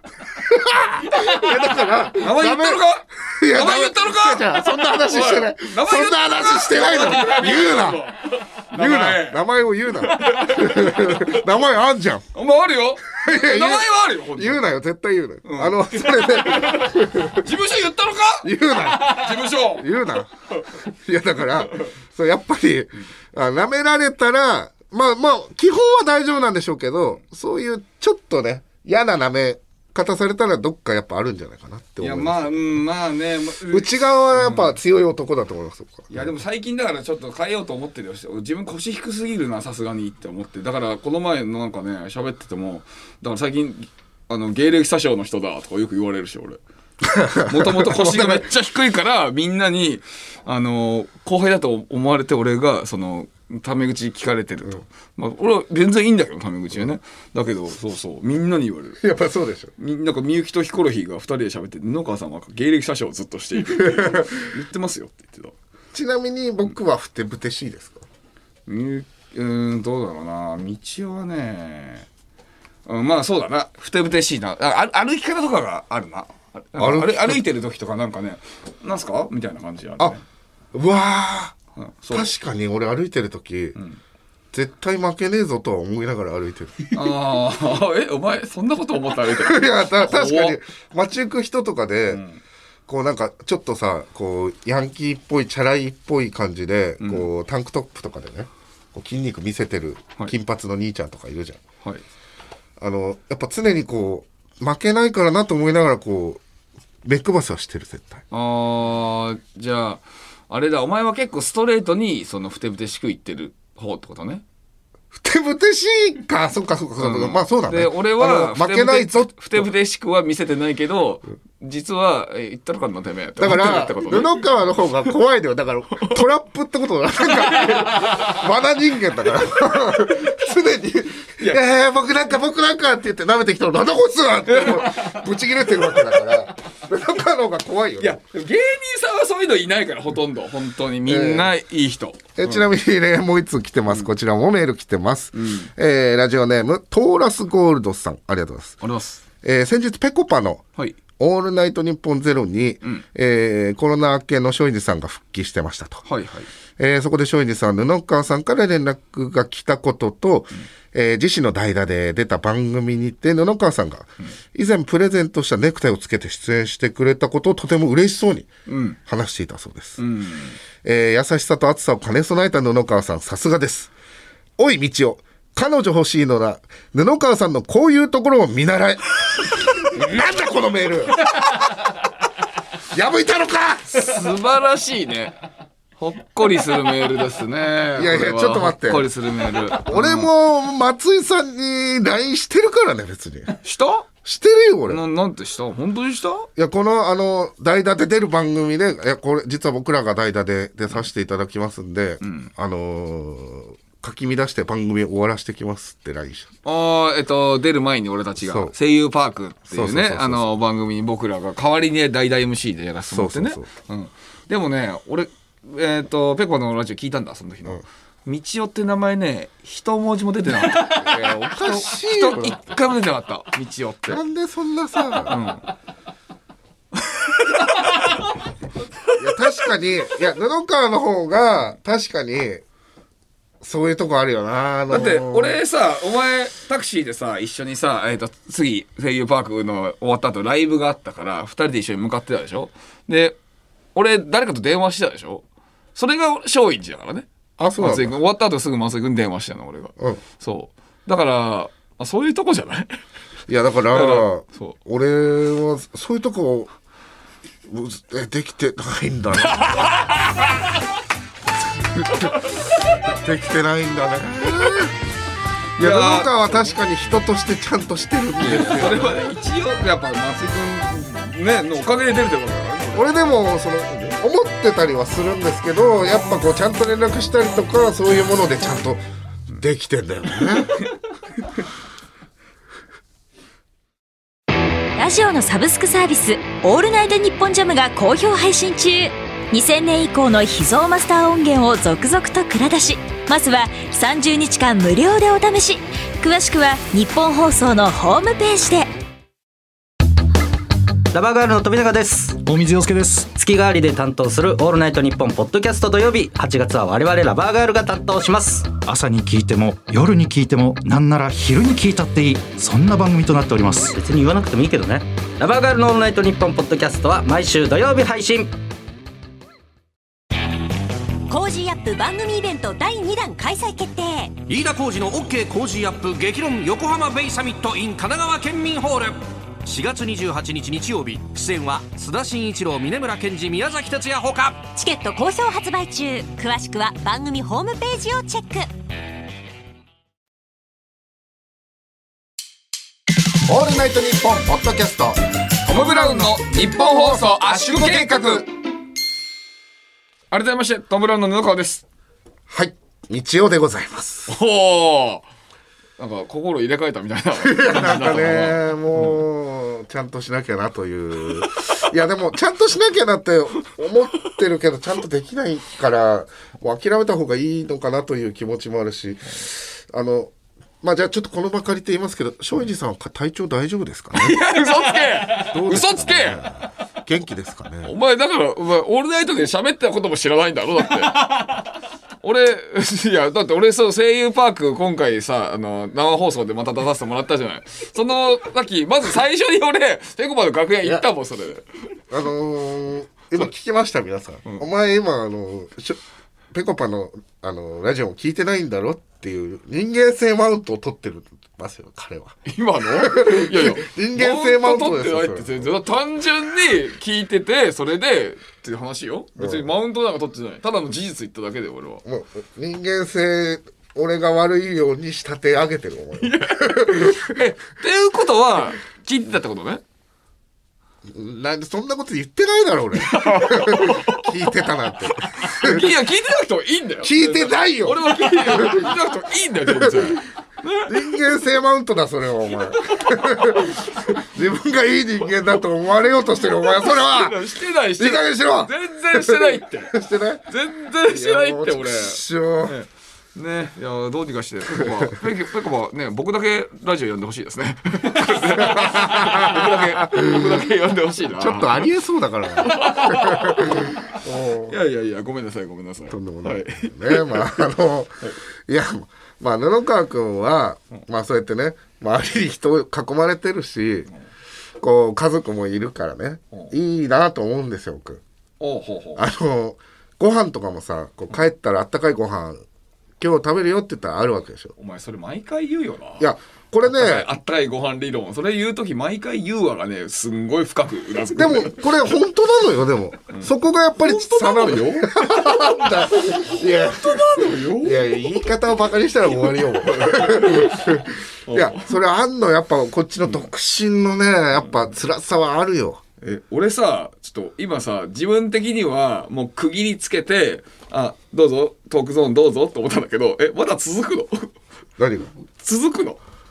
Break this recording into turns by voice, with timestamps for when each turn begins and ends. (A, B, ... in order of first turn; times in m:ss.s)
0:00.4-0:08.0 A
0:01.0-0:01.5 B
0:02.2-0:09.4 B
0:08.7-0:12.3 A
0:10.0-0:11.4 B
0:12.3-0:14.6 B
0:13.1-0:17.5 A
0:15.4-0:20.0 B
0:18.4-0:32.6 A
0:32.0-0:34.8 B
0:33.7-0:36.3 A
0:36.1-0:46.6 B
0:47.0-0:48.4 A
0:47.4-0:59.0 B
0:59.0-0:59.7 A
0:59.8-1:05.6 B
1:03.6-1:04.4 A
1:05.9-1:08.0 A
1:08.7-1:12.1 B
1:12.8-1:20.2 B
1:16.8-1:17.4 A
1:20.7-1:21.6 A
1:21.8-1:22.3 B
1:22.1-1:23.8 A
1:24.5-1:27.0 A
1:26.9-1:30.6 B
1:29.2-1:32.2 A
1:32.1-1:32.4 B
1:32.9-1:41.6 A
1:37.0-1:37.3 B
1:42.8-1:46.4 A
1:47.0-1:48.2 A
1:48.3-1:54.4 B
1:55.1-1:59.7 A
1:57.0-2:04.4 B
2:03.4-2:18.2 A
2:07.5-2:08.3 B
2:14.5-2:15.2 B
2:15.8-2:16.3 B
2:18.0-2:22.6 B
2:21.0-2:21.5 A
2:22.4-2:28.8 A
2:25.3-2:25.7 B
2:28.8-2:29.2 B
2:29.4-2:30.6 A
2:31.2-2:36.0 A
2:36.0-2:36.5 B
2:36.8-2:48.5 A
2:48.7-2:49.0 B
2:49.0-2:50.0 A
2:50.0-2:50.6 B
2:50.8-2:53.9 A
2:54.6-3:01.3 A
3:02.9-3:04.1 A
3:03.9-3:05.4 B
3:06.0-3:10.3 B
3:08.0-3:09.1 A
3:09.7-3:13.5 A
3:13.6-3:14.1 B
3:14.2-3:15.0 A
3:14.9-3:16.5 B
3:16.6-3:26.5 A
3:22.2-3:22.5 B
3:26.6-3:44.2 B
3:28.4-3:28.7 A
3:29.7-3:30.5 A
3:33.1-3:33.7 A
3:40.8-3:42.8 A
3:44.1-3:45.4 A
3:45.2-3:45.6 B
3:47.1-3:48.2 B
3:49.2-3:52.6 A
3:53.6-3:55.6 A
3:54.9-4:03.4 B
4:03.9-4:07.3 B
4:07.6-4:08.2 A
4:07.8-4:12.9 B
4:13.5-4:16.7 A
4:13.9-4:14.8 B
4:17.7-4:19.9 A
4:19.6-4:20.5 B
4:22.0-4:22.5 A
4:23.0-4:24.9 A
4:25.8-4:26.8 B
4:25.8-4:29.3 A
4:28.4-4:33.1 B
4:32.9-4:39.0 A
4:39.5-4:40.8 A
4:45.0-4:58.9 C
5:01.1-5:02.4 D
5:02.4-5:03.3 E
5:03.3-5:08.8 D
5:08.8-5:14.0 E
5:14.0-5:18.5 D
5:21.3-5:24.4 C
5:24.4-5:34.7 F
5:34.7-5:38.7 C
5:43.4-5:48.4 A
5:45.7-5:48.4 B
5:50.3-5:51.8 B
5:52.5-5:54.3 A
5:54.3-5:55.2 B
5:56.0-5:59.2 B
5:57.4-6:14.4 A
6:14.1-6:16.5 B
6:15.3-6:17.9 A
6:17.8-6:21.6 B
6:22.2-6:31.6 B
6:32.1-6:36.0 A
6:36.5-6:42.4 A
6:42.4-6:52.0 B
6:43.0-6:45.7 A
6:49.4-6:49.7 A
6:52.0-6:57.4 A
6:56.2-6:59.8 B
7:01.1-7:05.9 A
7:03.0-7:04.3 B
7:05.4-7:10.9 B
7:07.0-7:09.0 A
7:09.6-7:10.1 A
7:10.8-7:17.4 A
7:12.9-7:13.8 B
7:16.6-7:20.0 B
7:18.0-7:20.5 A
7:20.5-7:31.9 B
7:21.0-7:22.8 A
7:24.7-7:25.1 A
7:28.3-7:30.6 A
7:31.3-7:34.7 A
7:32.6-7:37.6 B
7:36.1-7:44.1 A
7:44.8-7:48.2 A
7:48.6-7:49.2 B
7:49.2-7:52.6 A
7:53.2-7:54.7 A
7:54.8-7:56.3 B
7:56.2-7:57.3 A
7:56.8-8:01.9 B
8:01.3-8:16.0 A
8:03.3-8:08.5 B
8:09.5-8:12.0 B
8:16.2-8:24.5 B
8:25.0-8:25.3 A
8:25.6-8:26.2 B